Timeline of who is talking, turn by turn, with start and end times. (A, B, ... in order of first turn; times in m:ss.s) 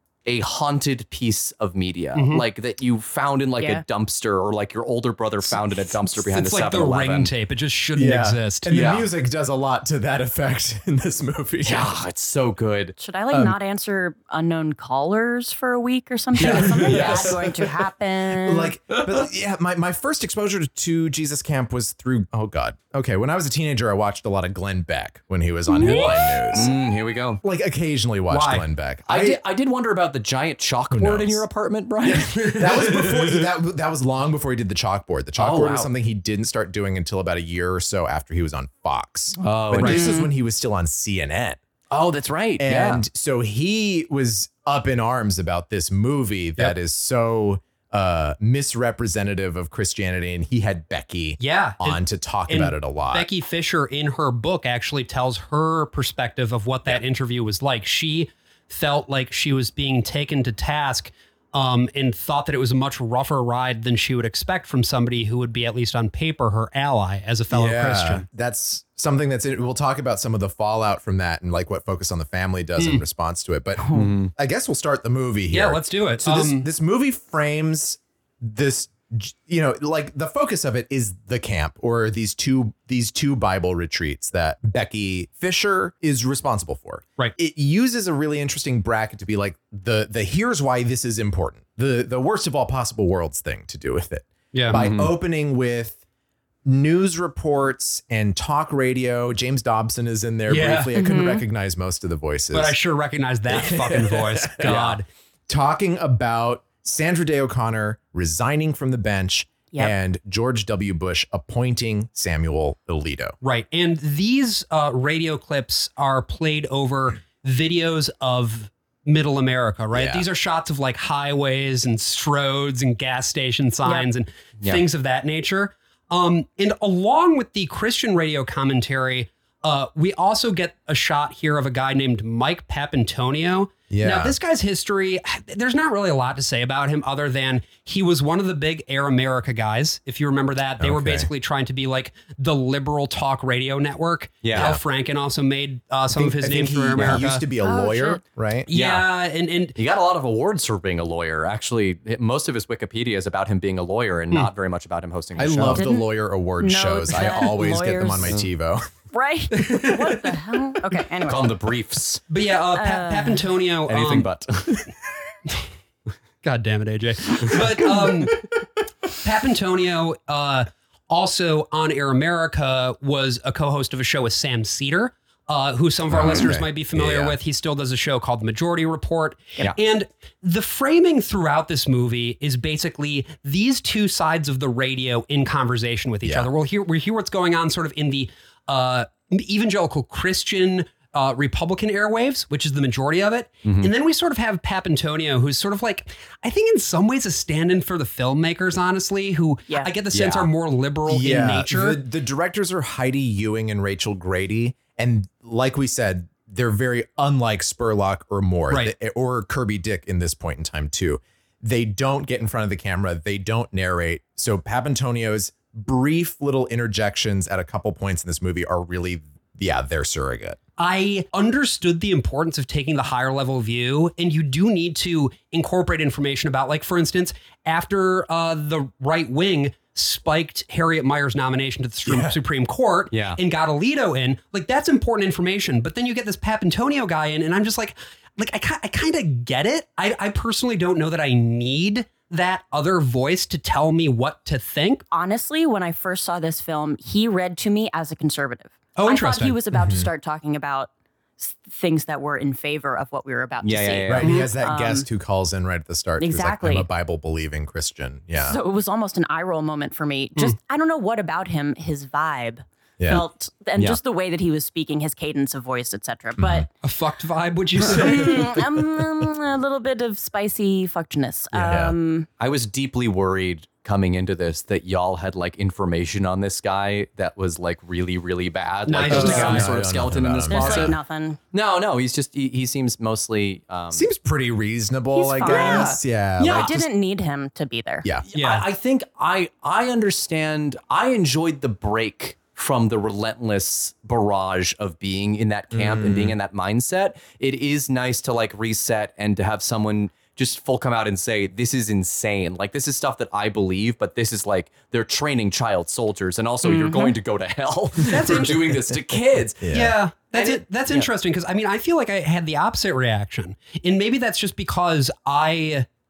0:00.2-0:07.3 A
0:02.1-0:02.4 B
0:03.6-0:03.8 C
0:06.3-0:08.8 B
0:08.0-0:11.9 D
0:08.7-0:09.1 A
0:11.6-0:12.9 A
0:13.0-0:18.7 C
0:13.3-0:13.6 D
0:16.4-0:17.6 D
0:16.4-0:17.3 A
0:18.4-0:26.7 D
0:25.7-0:26.5 C
0:25.8-0:26.2 B
0:26.5-0:27.4 A
0:27.4-0:29.4 D
0:28.3-0:28.7 B
0:29.1-0:32.6 A
0:30.9-0:31.4 D
0:32.0-0:41.6 D
0:32.2-0:33.4 B
0:35.4-0:35.9 A
0:39.4-0:40.2 A
0:39.8-0:40.1 B
0:39.9-0:40.3 C
0:41.9-0:43.0 A
0:42.6-0:53.3 D
0:51.4-1:08.2 B
1:07.5-1:36.0 D
1:12.8-1:13.0 B
1:13.8-1:14.1 C
1:13.9-1:14.3 A
1:15.5-1:16.6 B
1:34.5-1:34.8 B
1:34.7-1:35.1 A
1:36.6-1:42.8 D
1:40.5-1:41.0 B
1:40.9-1:41.4 C
1:42.5-1:45.0 B
1:43.5-1:44.9 D
1:44.6-1:45.0 A
1:45.5-1:53.4 D
1:53.4-2:27.4 B
1:59.9-2:00.2 D
2:13.9-2:14.4 D
2:20.8-2:21.3 D
2:24.4-2:24.8 A
2:24.5-2:24.8 D
2:26.1-2:28.7 D
2:27.6-2:28.2 C
2:28.7-2:29.8 B
2:28.7-2:29.1 A
2:29.8-2:35.8 A
2:35.4-2:38.8 D
2:35.7-2:36.1 C
2:36.6-2:38.4 C
2:39.1-2:41.7 C
2:39.6-2:40.5 B
2:41.2-2:42.2 A
2:42.3-2:44.3 B
2:42.7-2:43.5 C
2:43.9-2:44.9 A
2:46.4-2:48.5 B
2:49.2-3:22.0 B
2:56.1-2:57.4 D
3:06.2-3:06.5 D
3:13.6-3:13.9 A
3:20.1-3:20.5 A
3:21.1-3:40.6 D
3:40.8-4:05.0 B
3:52.0-3:52.4 D
3:53.1-3:53.4 A
4:05.1-4:15.0 C
4:09.0-4:09.6 B
4:09.7-4:10.1 D
4:13.6-4:14.4 A
4:14.1-4:18.6 D
4:14.2-4:14.5 B
4:16.2-4:16.9 C
4:18.4-4:26.7 C
4:23.0-4:23.2 D
4:26.4-4:26.7 D
4:26.8-4:28.6 B
4:27.8-4:32.3 C
4:31.5-4:31.9 D
4:32.4-4:41.0 A
4:38.9-4:39.7 B
4:39.1-4:41.0 D
4:39.1-4:39.5 C
4:40.5-4:41.4 C
4:41.5-4:44.1 A
4:43.9-4:46.8 D
4:45.1-4:48.1 C
4:45.4-4:46.7 A
4:48.3-5:09.6 A
4:48.3-4:48.6 B
4:55.7-4:56.4 D
5:06.6-5:07.2 C
5:08.1-5:08.8 B
5:09.6-5:10.0 D
5:09.7-5:15.9 B
5:10.3-5:11.1 A